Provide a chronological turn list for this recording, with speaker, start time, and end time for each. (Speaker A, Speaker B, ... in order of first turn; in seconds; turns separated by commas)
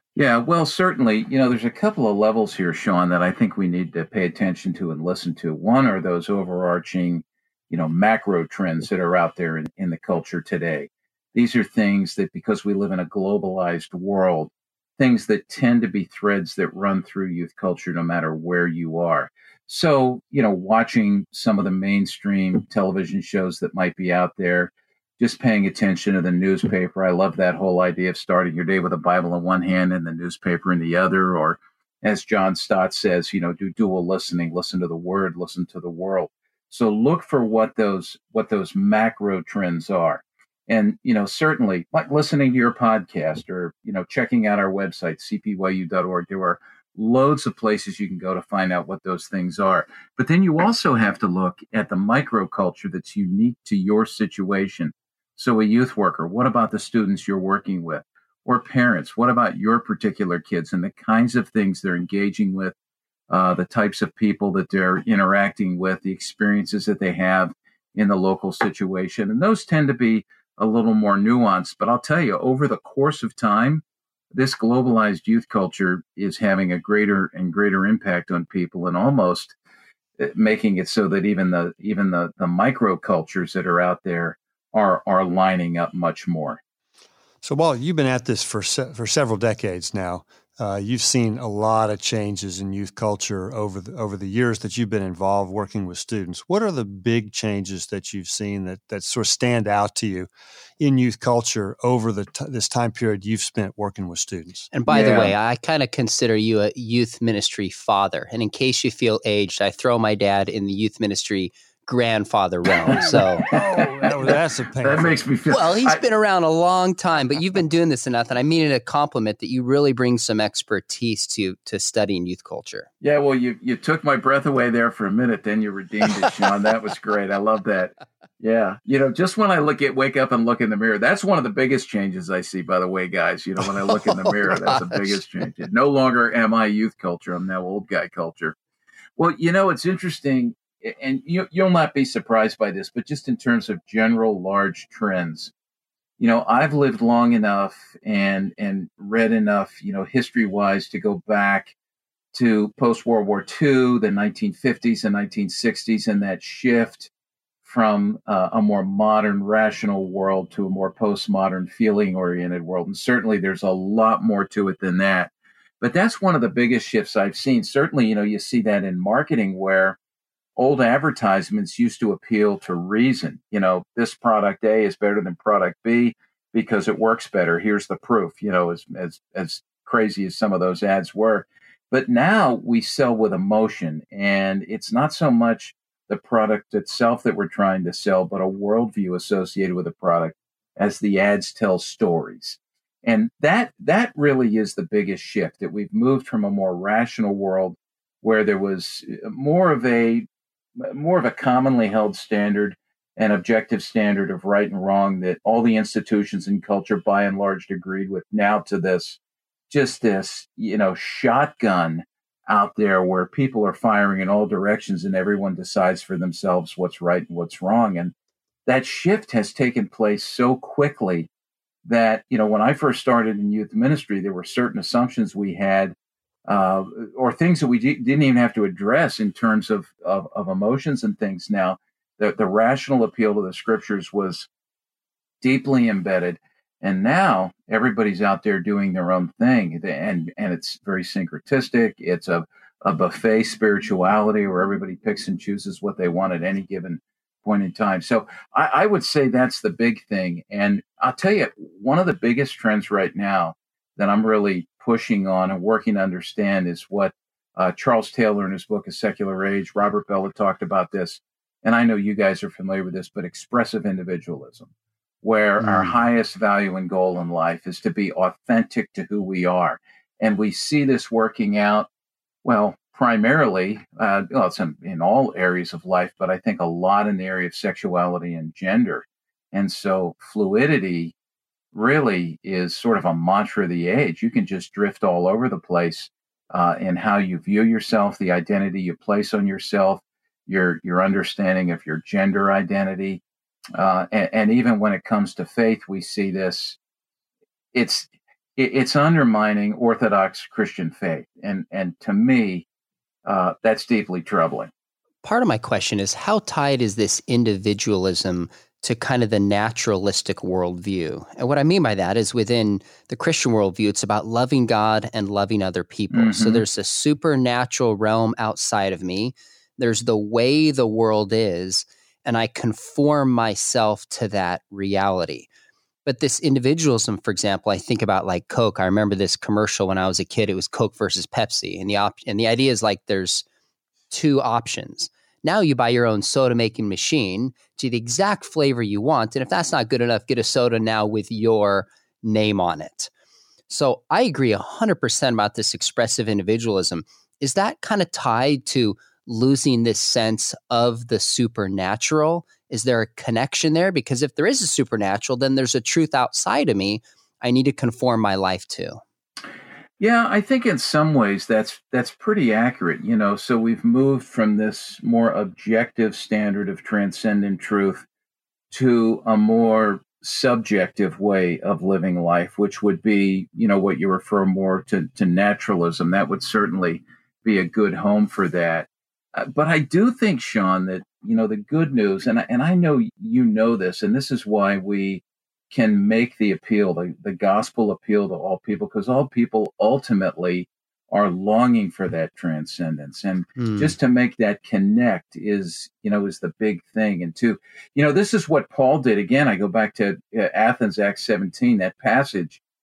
Speaker A: 0.1-62.7, Speaker A: 63.3-79.5, Speaker A: 80.2-86.6, Speaker B: 87.4-104.7, Speaker C: 104.7-113.5, Speaker A: 104.9-105.3, Speaker B: 112.9-115.2, Speaker A: 112.9-116.0, Speaker C: 115.5-122.9, Speaker A: 123.0-138.6, Speaker C: 133.9-135.2, Speaker A: 139.2-145.5, Speaker A: 146.2-151.7, Speaker A: 152.3-157.1, Speaker A: 157.6-170.0, Speaker A: 170.6-200.3, Speaker A: 200.8-209.2, Speaker A: 209.7-218.1, Speaker A: 218.7-221.3, Speaker A: 221.8-225.9, Speaker A: 226.4-234.5, Speaker A: 235.4-264.7, Speaker A: 265.2-271.9, Speaker C: 265.6-266.0, Speaker A: 272.4-281.1, Speaker A: 281.7-293.2, Speaker A: 293.7-296.8, Speaker A: 297.7-302.6, Speaker A: 303.2-304.7, Speaker C: 305.2-325.5, Speaker A: 316.1-316.6, Speaker C: 326.0-333.4, Speaker C: 334.1-343.1, Speaker C: 343.7-359.0, Speaker A: 360.0-368.1, Speaker A: 368.7-402.6, Speaker C: 393.6-393.9